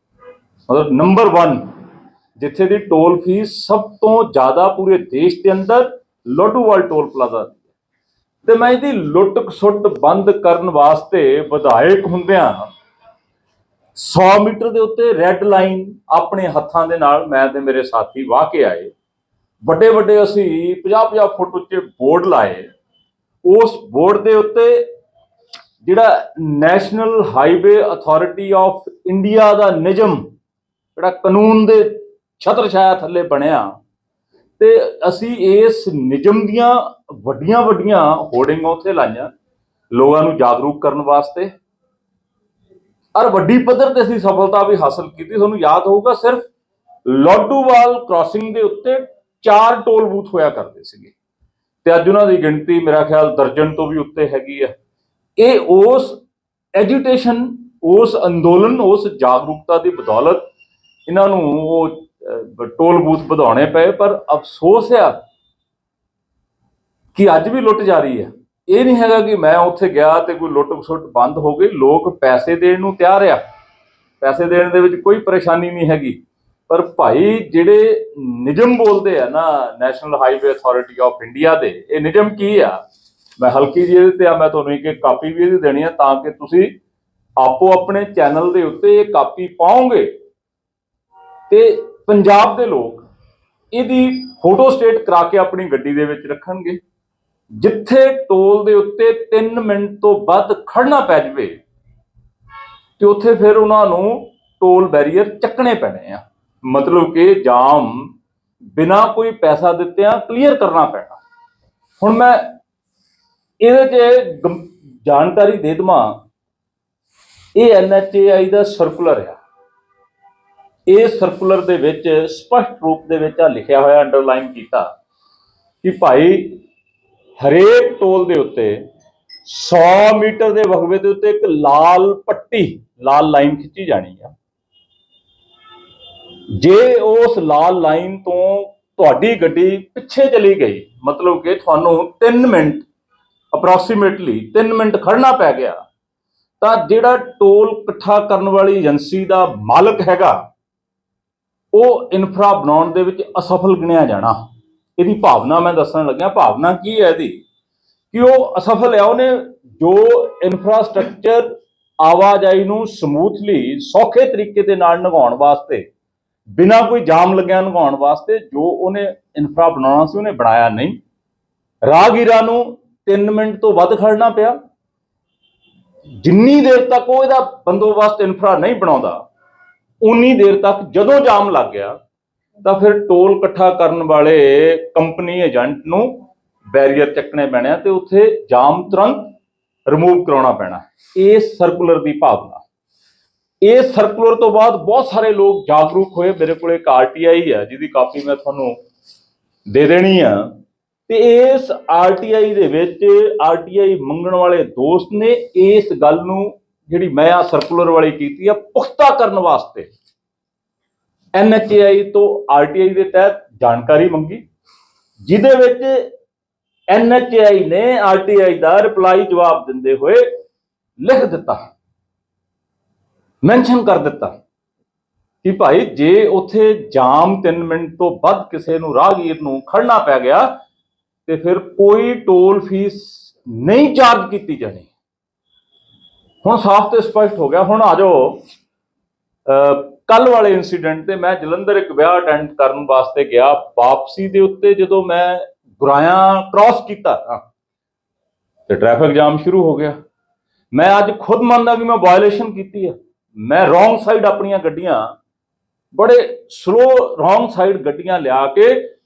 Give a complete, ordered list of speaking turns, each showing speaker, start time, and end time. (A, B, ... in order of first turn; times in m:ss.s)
0:00.7-0:01.6 A
0:02.4-0:07.6 A
0:08.4-0:12.7 A
0:14.0-0:18.9 A
0:19.6-0:22.7 A
0:23.4-0:24.9 A
0:25.8-0:30.3 A
0:31.0-0:33.8 A
0:34.6-0:39.3 A
0:39.9-0:41.5 A
0:43.2-0:46.5 A
0:47.1-0:51.1 A
0:51.8-0:54.7 A
0:55.4-0:56.2 A
0:56.8-1:00.4 A
1:01.1-1:05.2 A
1:07.1-1:13.4 A
1:14.2-1:22.8 A
1:23.4-1:26.7 A
1:27.4-1:30.1 A
1:31.5-1:33.1 A
1:33.7-1:36.8 A
1:37.6-1:41.6 A
1:43.0-1:48.1 A
1:48.8-1:51.2 A
1:52.0-1:52.6 A
1:53.6-1:56.2 A
1:57.6-1:59.4 A
2:00.9-2:04.9 A
2:05.8-2:06.6 A
2:07.4-2:08.8 A
2:09.4-2:14.4 A
2:16.6-2:22.8 A
2:23.5-2:25.8 A
2:26.6-2:30.4 A
2:31.7-2:34.4 A
2:35.0-2:37.4 A
2:38.1-2:41.5 A
2:42.0-2:45.8 A
2:46.6-2:51.0 A
2:51.9-2:54.6 A
2:56.2-2:59.2 A
3:00.0-3:02.0 A
3:02.6-3:06.2 A
3:06.7-3:09.3 A
3:09.9-3:12.6 A
3:13.6-3:18.8 A
3:19.7-3:20.5 A
3:21.1-3:29.9 A
3:31.4-3:34.4 A
3:35.2-3:36.1 A
3:36.9-3:40.3 A
3:41.0-3:41.7 A
3:43.4-3:44.4 A
3:45.4-3:50.5 A
3:51.3-3:54.9 A
3:56.4-3:58.4 A
3:59.5-4:07.4 A
4:08.7-4:10.0 A
4:10.7-4:15.1 A
4:15.9-4:18.9 A